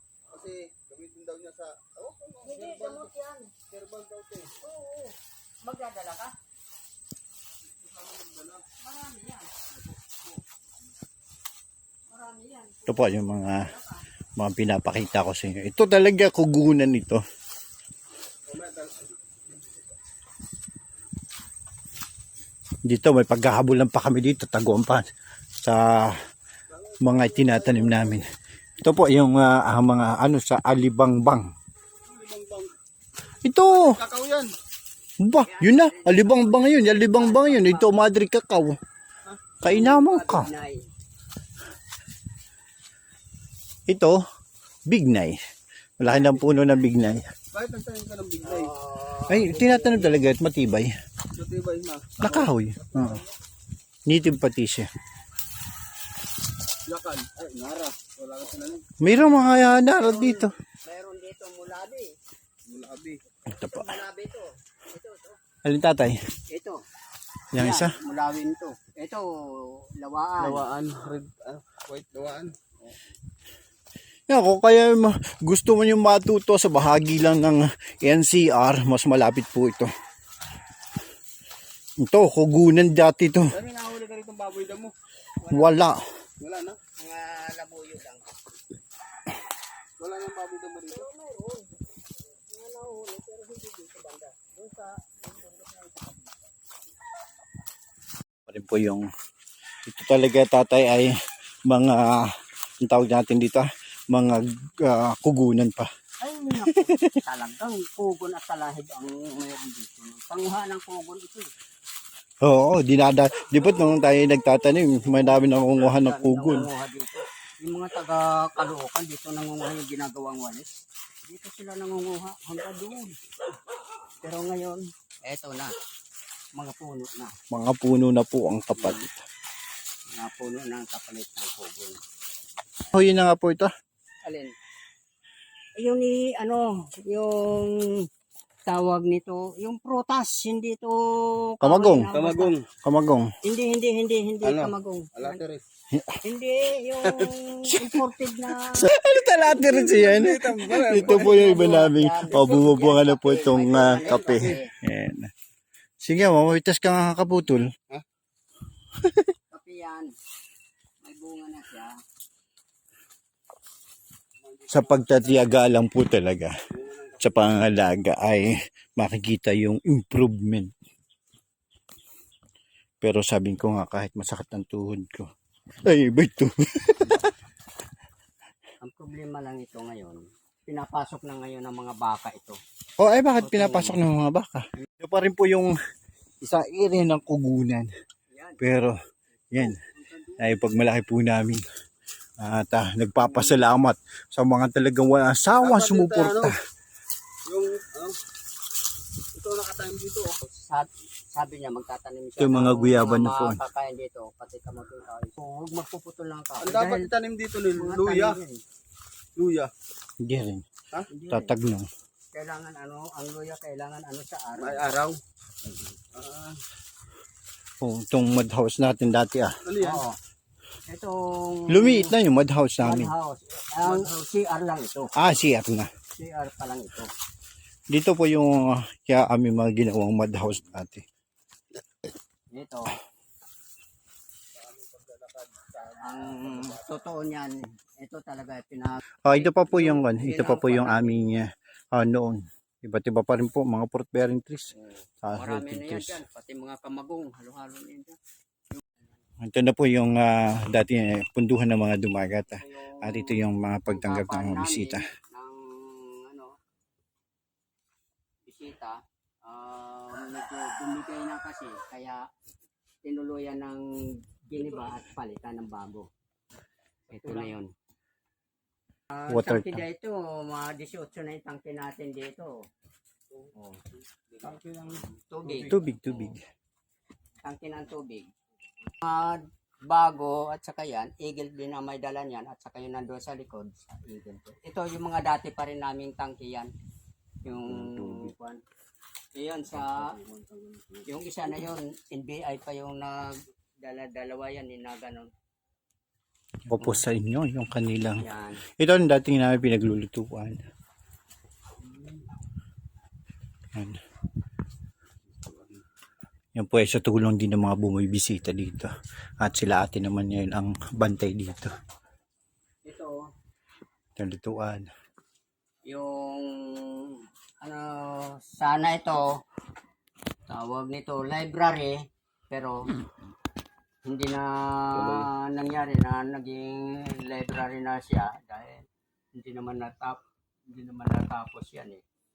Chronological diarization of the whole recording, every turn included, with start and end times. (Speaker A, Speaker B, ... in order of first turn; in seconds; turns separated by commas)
Speaker A: 0.3-3.1, Speaker B: 2.4-3.5, Speaker A: 3.7-4.6, Speaker B: 4.6-6.3, Speaker A: 7.8-8.7, Speaker B: 8.7-9.7, Speaker B: 12.1-14.0, Speaker C: 12.8-13.7, Speaker C: 14.4-17.2, Speaker A: 18.5-19.1, Speaker C: 22.9-25.0, Speaker C: 25.6-26.1, Speaker A: 26.7-28.2, Speaker C: 27.0-28.3, Speaker C: 28.8-31.5, Speaker A: 32.0-32.7, Speaker C: 33.4-34.0, Speaker A: 33.7-34.5, Speaker C: 35.2-38.8, Speaker B: 35.4-38.0, Speaker C: 39.6-40.5, Speaker B: 39.6-40.8, Speaker C: 43.9-44.2, Speaker C: 44.9-45.4, Speaker C: 46.0-47.2, Speaker B: 46.1-46.4, Speaker A: 47.5-48.7, Speaker B: 48.4-50.3, Speaker C: 49.3-50.9, Speaker A: 51.3-53.1, Speaker C: 52.2-53.2, Speaker C: 54.0-54.9, Speaker A: 56.9-58.9, Speaker C: 59.0-60.5, Speaker B: 59.8-62.1, Speaker A: 62.6-63.2, Speaker B: 63.5-65.4, Speaker C: 63.5-63.8, Speaker C: 65.6-66.2, Speaker B: 66.5-66.8, Speaker C: 67.5-67.9, Speaker B: 67.5-70.6, Speaker A: 70.4-72.9, Speaker C: 74.3-79.9, Speaker C: 82.0-83.5, Speaker A: 83.5-84.9, Speaker B: 85.4-85.8, Speaker C: 85.5-86.0, Speaker A: 86.4-86.8, Speaker B: 86.9-88.2, Speaker A: 90.0-91.1, Speaker B: 90.9-96.0, Speaker C: 98.5-99.1, Speaker C: 99.8-101.1, Speaker C: 101.7-102.3, Speaker C: 102.8-105.9, Speaker B: 106.2-111.5, Speaker C: 106.5-107.2, Speaker C: 112.4-116.7, Speaker B: 114.8-120.7, Speaker B: 121.2-123.2, Speaker B: 124.2-125.7, Speaker B: 126.5-127.3, Speaker C: 127.5-129.2, Speaker B: 128.8-129.1, Speaker B: 130.1-132.0, Speaker C: 132.9-133.7, Speaker B: 134.2-134.5, Speaker B: 135.8-138.1, Speaker B: 138.7-142.6, Speaker C: 141.6-142.1, Speaker A: 142.1-142.7, Speaker C: 142.8-143.3, Speaker B: 143.4-145.4, Speaker A: 144.4-145.6, Speaker C: 145.9-146.2, Speaker B: 146.2-148.9, Speaker C: 148.7-155.3, Speaker A: 149.5-151.9, Speaker B: 150.8-154.7, Speaker A: 153.9-154.5, Speaker C: 156.0-157.7, Speaker B: 159.5-160.1, Speaker B: 161.0-161.9, Speaker A: 164.4-165.4, Speaker C: 164.7-166.5, Speaker A: 166.7-167.6, Speaker C: 167.2-170.7, Speaker C: 173.0-175.3, Speaker C: 175.8-177.3, Speaker B: 178.8-182.6, Speaker C: 183.0-185.7, Speaker B: 183.4-184.0, Speaker C: 186.4-187.9, Speaker B: 188.3-188.6, Speaker C: 188.6-189.0, Speaker C: 189.5-189.8, Speaker B: 189.6-190.5, Speaker C: 190.4-191.6, Speaker C: 192.4-196.5, Speaker A: 195.6-196.5, Speaker A: 197.4-198.2, Speaker A: 199.3-200.4, Speaker B: 200.4-207.1, Speaker C: 202.4-203.6, Speaker A: 206.6-208.4, Speaker B: 207.7-208.6, Speaker A: 209.3-209.7, Speaker C: 210.2-210.7, Speaker B: 211.1-211.5, Speaker C: 211.3-211.9, Speaker B: 212.3-214.9, Speaker A: 214.6-215.2, Speaker A: 216.1-216.6, Speaker C: 217.8-219.6, Speaker A: 219.6-220.0, Speaker B: 219.8-220.2, Speaker B: 220.9-222.1, Speaker C: 221.7-223.1, Speaker B: 222.8-225.1, Speaker C: 225.2-225.9, Speaker B: 226.2-227.1, Speaker C: 227.9-231.0, Speaker B: 232.5-233.0, Speaker A: 234.6-236.7, Speaker B: 236.0-241.4, Speaker C: 239.2-246.2, Speaker B: 245.3-248.2, Speaker C: 249.4-255.0, Speaker B: 252.5-256.6, Speaker B: 258.4-262.2, Speaker B: 263.0-266.1, Speaker B: 267.1-267.7, Speaker A: 267.1-267.5, Speaker B: 269.1-272.5, Speaker C: 269.3-269.8, Speaker A: 274.4-275.8, Speaker B: 275.3-276.4, Speaker C: 275.6-276.4, Speaker B: 277.4-278.3, Speaker B: 279.0-286.7, Speaker B: 287.4-288.6, Speaker C: 288.0-288.2, Speaker B: 289.4-290.2, Speaker A: 290.2-291.0, Speaker B: 291.0-295.3, Speaker C: 296.7-298.2, Speaker B: 298.2-298.6, Speaker C: 298.8-300.6, Speaker A: 305.4-305.8, Speaker C: 306.5-311.7, Speaker B: 312.9-313.1, Speaker C: 314.2-314.9, Speaker B: 315.9-319.4, Speaker B: 320.5-322.0, Speaker B: 322.5-322.9, Speaker B: 324.0-332.0, Speaker A: 324.9-325.3